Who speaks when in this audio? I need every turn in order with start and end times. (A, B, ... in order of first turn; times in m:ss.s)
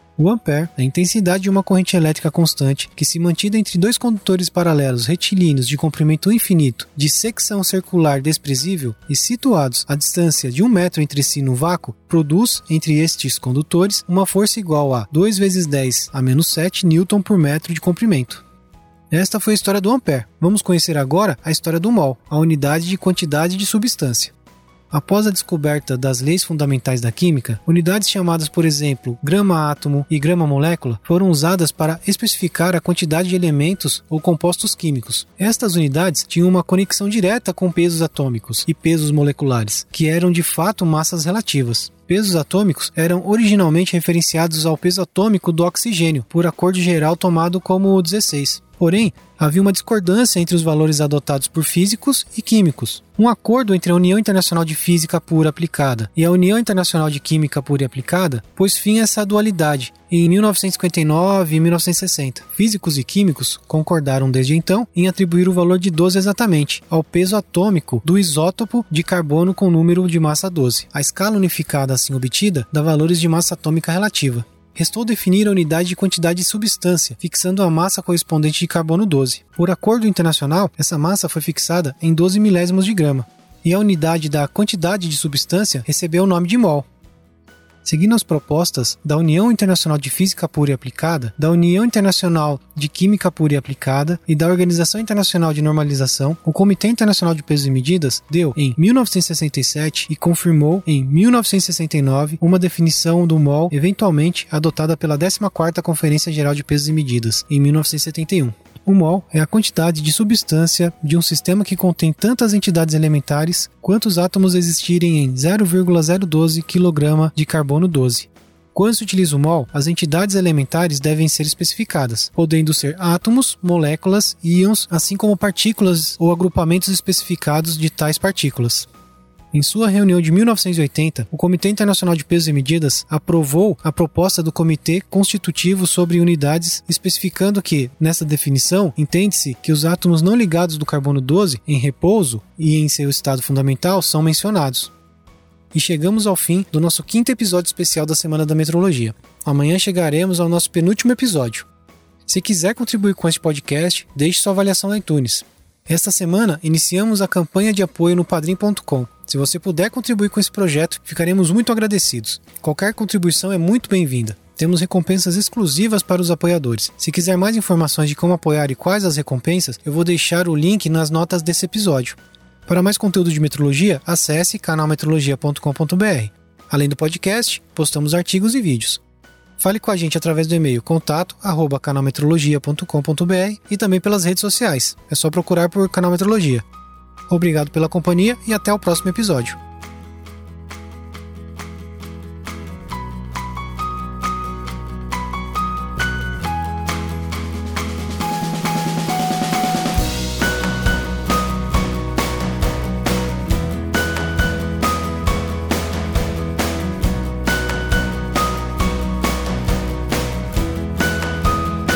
0:00.2-0:18.4 A
0:19.1-0:24.3 A
0:24.9-1:26.9 A
1:27.8-2:08.9 A
2:09.5-2:24.9 A
2:25.7-2:31.7 A
2:32.3-2:59.0 A
2:59.6-3:06.6 A
3:07.3-3:09.6 A